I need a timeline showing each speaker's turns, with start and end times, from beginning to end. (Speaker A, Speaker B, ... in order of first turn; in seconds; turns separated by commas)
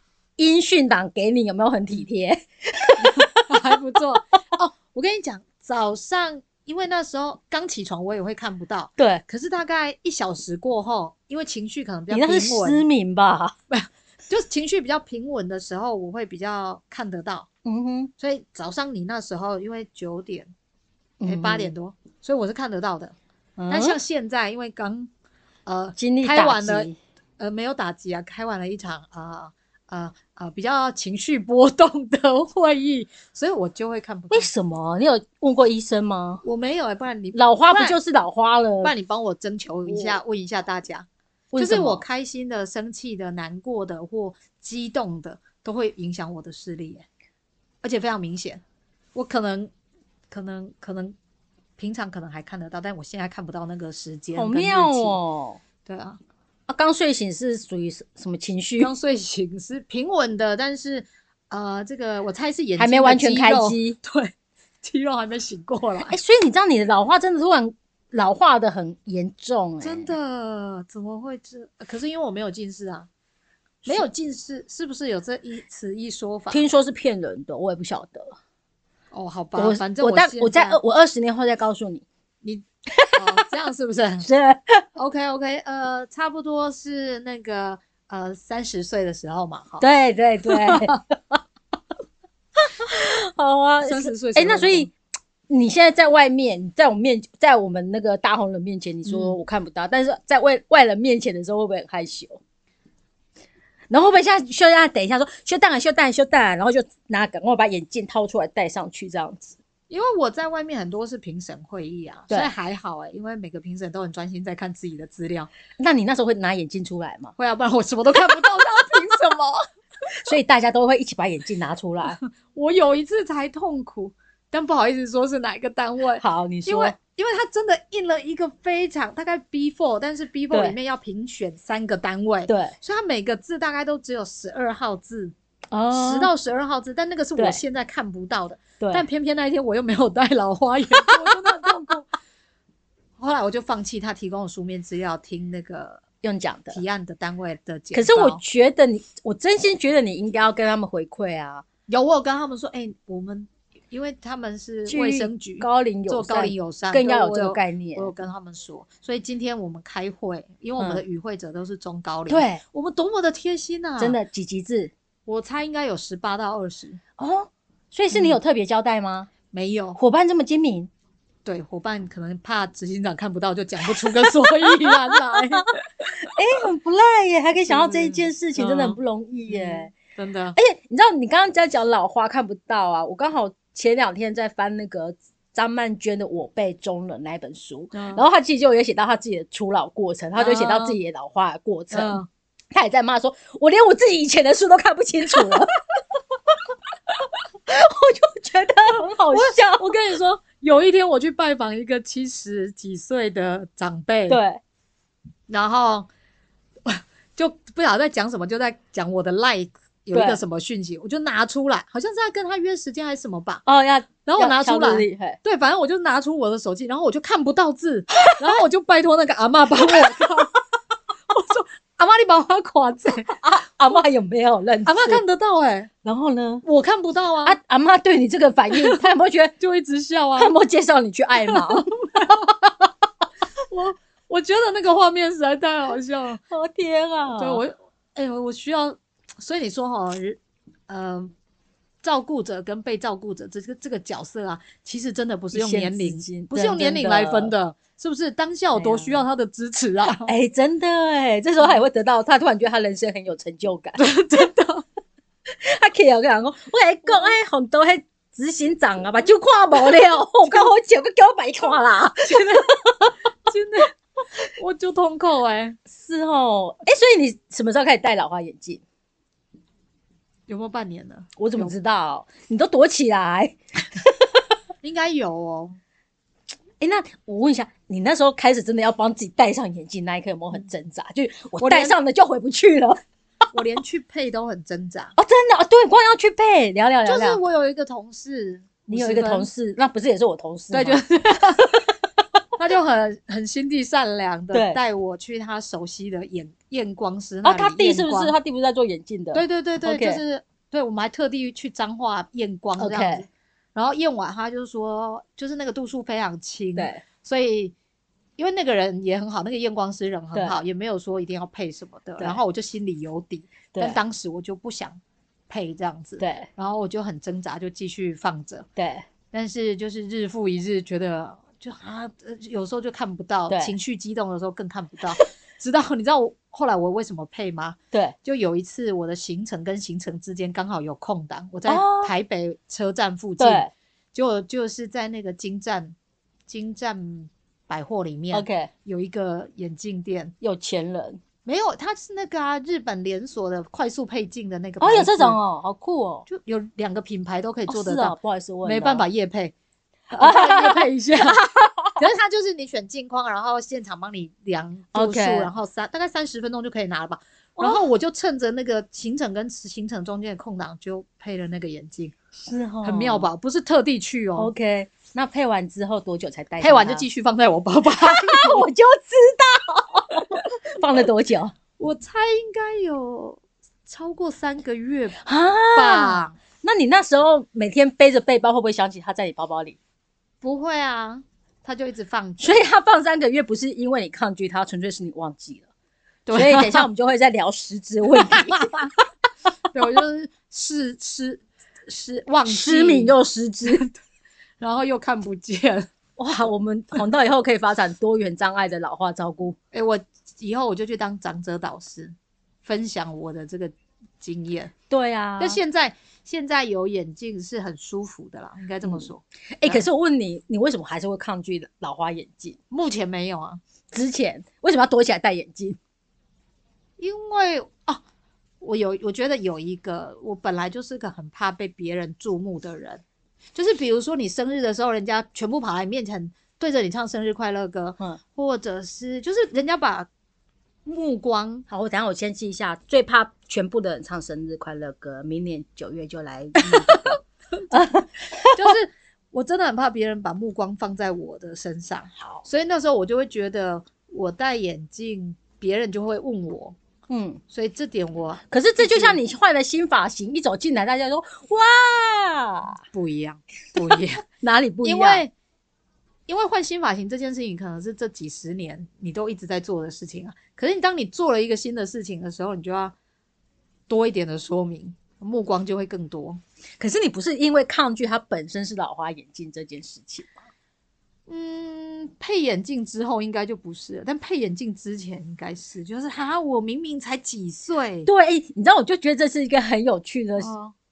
Speaker A: 0.4-3.8, Speaker B: 3.0-12.8, Speaker A: 12.1-13.5, Speaker B: 13.7-17.5, Speaker A: 17.6-18.1, Speaker B: 18.2-20.5, Speaker A: 21.2-21.7, Speaker B: 21.2-23.1, Speaker A: 23.6-24.0, Speaker B: 23.7-25.1, Speaker B: 25.6-34.5, Speaker A: 25.9-27.0, Speaker A: 34.3-36.4, Speaker B: 36.4-38.0, Speaker A: 37.3-38.9, Speaker B: 38.8-41.0, Speaker A: 39.9-40.2, Speaker A: 41.5-42.0, Speaker B: 41.6-47.0, Speaker B: 47.8-48.6, Speaker B: 49.1-49.7, Speaker B: 50.3-51.1, Speaker B: 51.8-55.2, Speaker A: 54.4-55.6, Speaker B: 55.8-56.2, Speaker A: 56.7-58.9, Speaker B: 58.8-66.2, Speaker A: 62.8-64.0, Speaker A: 66.1-70.1, Speaker B: 69.8-73.1, Speaker A: 73.8-74.1, Speaker B: 73.8-76.6, Speaker A: 76.5-78.3, Speaker B: 79.1-80.8, Speaker A: 79.5-82.0, Speaker B: 82.4-84.3, Speaker A: 82.9-83.4, Speaker A: 84.2-84.8, Speaker B: 85.0-89.8, Speaker A: 89.8-91.4, Speaker B: 90.5-91.0, Speaker A: 92.7-94.9, Speaker B: 93.8-94.9, Speaker A: 95.5-102.4, Speaker B: 99.0-99.3, Speaker A: 103.9-109.5, Speaker B: 109.9-115.5, Speaker A: 115.8-117.3, Speaker B: 117.4-119.7, Speaker A: 118.3-118.6, Speaker A: 120.2-122.2, Speaker B: 122.2-135.3, Speaker A: 126.2-126.9, Speaker A: 130.5-130.8, Speaker A: 132.5-132.8, Speaker A: 135.7-136.3, Speaker B: 135.9-142.1, Speaker A: 138.8-139.1, Speaker A: 140.9-141.7, Speaker B: 143.2-146.0, Speaker A: 146.2-146.8, Speaker B: 146.7-148.4, Speaker A: 147.9-151.6, Speaker B: 151.9-164.2, Speaker A: 154.8-158.1, Speaker A: 162.3-162.6, Speaker A: 164.0-164.9, Speaker B: 165.2-167.0, Speaker A: 167.2-169.3, Speaker B: 168.1-168.4, Speaker B: 169.5-170.0, Speaker A: 169.9-170.9, Speaker B: 171.4-176.3, Speaker A: 174.0-175.6, Speaker A: 176.2-179.9, Speaker B: 177.7-180.6, Speaker A: 180.6-195.7, Speaker B: 187.9-188.2, Speaker B: 190.3-191.0, Speaker B: 191.9-192.3, Speaker A: 197.7-199.9, Speaker B: 199.3-204.4, Speaker A: 204.3-204.6, Speaker B: 205.5-206.1, Speaker B: 206.8-213.6, Speaker A: 210.1-210.4, Speaker A: 213.7-215.4, Speaker B: 214.2-220.6, Speaker A: 218.3-218.6, Speaker A: 219.8-220.2, Speaker B: 221.3-223.4, Speaker A: 223.3-225.2, Speaker B: 224.8-225.9, Speaker A: 226.0-226.6, Speaker B: 226.6-227.6, Speaker A: 227.4-229.5, Speaker B: 228.7-229.0, Speaker B: 229.6-230.5, Speaker A: 230.4-231.9, Speaker B: 231.4-232.5, Speaker B: 233.7-236.4, Speaker A: 236.5-237.6, Speaker B: 237.3-241.3, Speaker B: 242.0-250.3, Speaker A: 245.5-247.5, Speaker A: 248.7-249.2, Speaker A: 250.2-254.1, Speaker B: 254.0-254.8, Speaker A: 255.5-262.7, Speaker B: 260.4-260.7, Speaker B: 262.2-262.8, Speaker B: 263.5-265.8, Speaker A: 265.9-268.8, Speaker B: 270.5-271.7, Speaker A: 271.4-274.4, Speaker B: 274.8-275.8, Speaker A: 276.8-283.0, Speaker B: 281.6-281.9, Speaker B: 283.5-285.1, Speaker A: 285.2-287.4, Speaker B: 287.1-289.5, Speaker A: 288.9-291.0, Speaker B: 290.7-291.8, Speaker B: 292.6-298.3, Speaker A: 294.5-294.8, Speaker A: 297.4-300.2, Speaker B: 299.3-307.7, Speaker A: 302.8-303.2, Speaker A: 306.8-307.0, Speaker B: 308.4-315.0, Speaker A: 310.3-310.6, Speaker A: 313.7-314.0, Speaker B: 315.5-318.6, Speaker A: 316.2-316.5, Speaker A: 318.8-319.1, Speaker B: 319.3-335.9, Speaker A: 323.5-323.7, Speaker A: 331.6-332.1, Speaker A: 333.4-333.7, Speaker B: 336.5-340.3, Speaker A: 338.3-338.7, Speaker A: 340.4-341.2, Speaker B: 341.4-345.4, Speaker A: 344.8-346.3, Speaker B: 346.3-349.5, Speaker A: 347.7-349.1, Speaker B: 350.1-351.4, Speaker A: 350.2-352.1, Speaker B: 351.9-362.1, Speaker A: 354.9-355.5, Speaker A: 362.4-363.3, Speaker B: 362.8-364.5, Speaker A: 364.4-367.0, Speaker B: 366.6-368.7, Speaker A: 368.0-371.5, Speaker B: 371.8-376.4, Speaker A: 375.2-379.8, Speaker B: 380.4-382.7, Speaker A: 382.4-385.6, Speaker B: 386.2-386.9, Speaker A: 386.3-388.9, Speaker B: 388.2-388.9, Speaker B: 389.7-393.1, Speaker A: 392.5-393.8, Speaker B: 393.6-393.9, Speaker B: 394.6-395.9, Speaker A: 396.2-399.6, Speaker B: 399.7-404.7, Speaker A: 404.9-405.6, Speaker B: 405.4-409.9, Speaker A: 409.6-412.6, Speaker B: 412.7-413.6, Speaker A: 413.9-415.8, Speaker B: 417.0-418.0, Speaker B: 418.6-423.0, Speaker B: 423.5-430.1, Speaker B: 430.8-431.6, Speaker A: 431.7-437.1, Speaker B: 436.6-437.2, Speaker A: 437.7-438.7, Speaker B: 438.5-446.8, Speaker A: 442.2-442.4, Speaker A: 447.1-447.4, Speaker B: 447.5-449.2, Speaker A: 448.5-452.8, Speaker B: 452.9-454.2, Speaker A: 453.9-455.2, Speaker B: 454.8-455.3, Speaker B: 456.3-462.9, Speaker B: 463.9-466.4, Speaker A: 466.8-470.4, Speaker B: 471.3-478.1, Speaker A: 478.1-480.5, Speaker B: 480.4-480.7